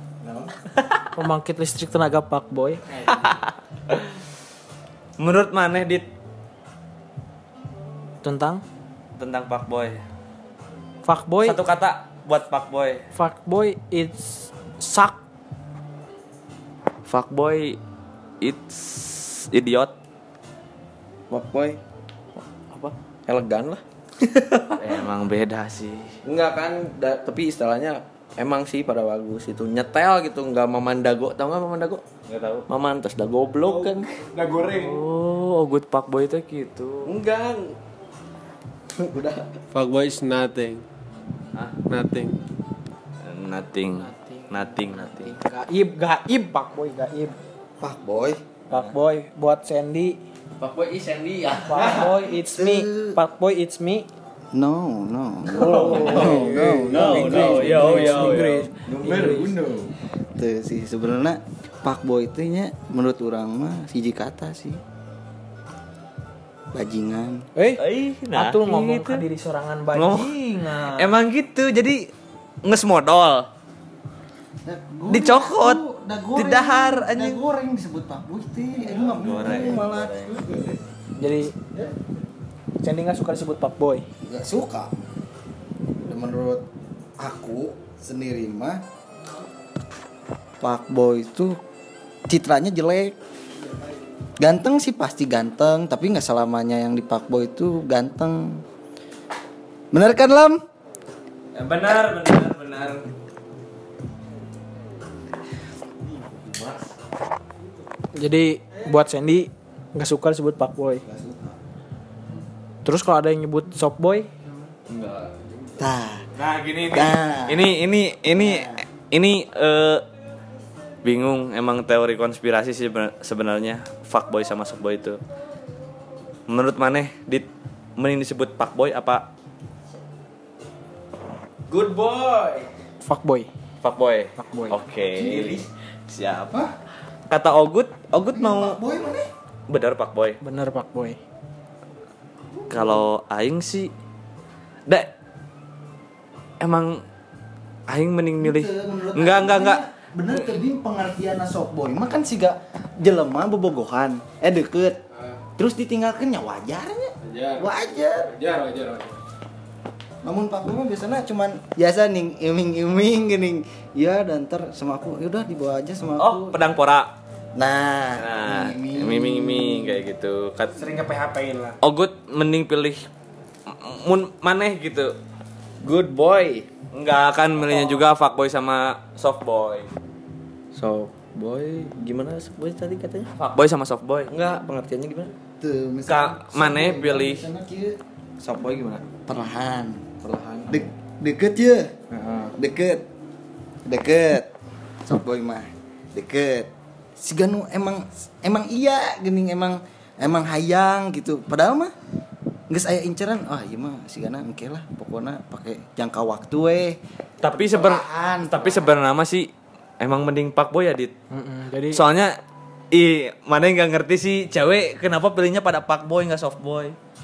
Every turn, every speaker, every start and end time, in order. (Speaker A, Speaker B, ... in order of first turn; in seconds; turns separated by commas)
Speaker A: 0.2-0.5, Speaker B: 1.1-2.8, Speaker C: 3.1-4.1, Speaker C: 5.2-6.1, Speaker B: 8.2-8.6, Speaker C: 9.2-10.0, Speaker B: 11.1-11.6, Speaker C: 11.4-13.0, Speaker B: 13.1-15.2, Speaker C: 17.1-17.8, Speaker C: 18.4-19.9, Speaker D: 21.3-21.8, Speaker D: 22.7-25.0, Speaker C: 24.8-26.2, Speaker D: 26.2-32.0, Speaker C: 32.3-32.6, Speaker D: 32.7-34.2, Speaker E: 34.4-34.9, Speaker C: 34.6-37.1, Speaker D: 37.2-37.6, Speaker A: 39.0-39.5, Speaker E: 39.7-40.8, Speaker E: 41.9-42.4, Speaker C: 43.2-45.3, Speaker B: 43.9-47.4, Speaker A: 47.8-48.4, Speaker B: 48.7-50.2, Speaker D: 50.6-52.1, Speaker B: 51.7-54.1, Speaker A: 52.4-53.2, Speaker A: 54.5-64.8, Speaker B: 55.5-59.7, Speaker C: 55.6-58.7, Speaker A: 66.7-67.5, Speaker B: 67.5-71.1, Speaker C: 67.8-69.2, Speaker C: 70.0-70.4, Speaker C: 70.9-72.1, Speaker C: 72.6-73.5, Speaker A: 74.7-80.8, Speaker C: 75.1-75.8, Speaker C: 76.3-77.4, Speaker C: 79.0-80.4, Speaker B: 81.2-81.6, Speaker B: 82.8-84.0, Speaker A: 84.2-85.0, Speaker A: 86.0-86.6, Speaker A: 87.2-88.8, Speaker A: 90.6-91.6, Speaker A: 92.3-93.2, Speaker A: 94.4-98.7, Speaker A: 99.9-100.6, Speaker C: 101.5-103.1, Speaker D: 106.3-106.9, Speaker B: 108.2-111.0, Speaker A: 111.0-111.5, Speaker B: 112.8-114.3, Speaker D: 114.9-115.3, Speaker A: 115.8-116.3, Speaker C: 116.4-120.1, Speaker A: 116.9-117.7, Speaker A: 118.3-118.8, Speaker C: 121.0-125.2, Speaker C: 126.5-129.3, Speaker D: 131.7-132.7, Speaker B: 133.0-133.5, Speaker C: 133.8-136.6, Speaker B: 134.4-134.8, Speaker A: 135.2-135.7, Speaker C: 137.3-138.8, Speaker A: 138.3-139.3, Speaker C: 139.7-140.4, Speaker B: 140.4-141.2, Speaker A: 142.5-143.1, Speaker C: 142.7-143.9, Speaker C: 146.6-147.0, Speaker C: 147.9-149.8, Speaker A: 148.4-155.0, Speaker A: 155.6-158.3, Speaker E: 157.2-157.7, Speaker E: 158.3-159.2, Speaker A: 160.2-166.6, Speaker C: 166.2-167.1, Speaker A: 167.6-170.0, Speaker C: 168.2-170.8, Speaker E: 170.8-171.8, Speaker C: 171.8-173.1, Speaker C: 173.7-175.2, Speaker D: 175.8-176.7, Speaker C: 176.9-179.9, Speaker D: 180.7-183.3, Speaker C: 183.4-184.3, Speaker D: 184.3-185.3, Speaker A: 185.6-188.0, Speaker C: 186.1-187.4, Speaker D: 188.4-189.2, Speaker A: 189.3-190.1, Speaker D: 190.2-190.8, Speaker A: 190.7-191.9, Speaker D: 192.1-192.5, Speaker A: 192.6-193.1, Speaker A: 193.8-194.5, Speaker A: 195.1-201.9, Speaker A: 202.7-208.9, Speaker C: 207.4-211.1, Speaker B: 211.3-212.0, Speaker C: 211.9-212.4, Speaker C: 212.9-217.0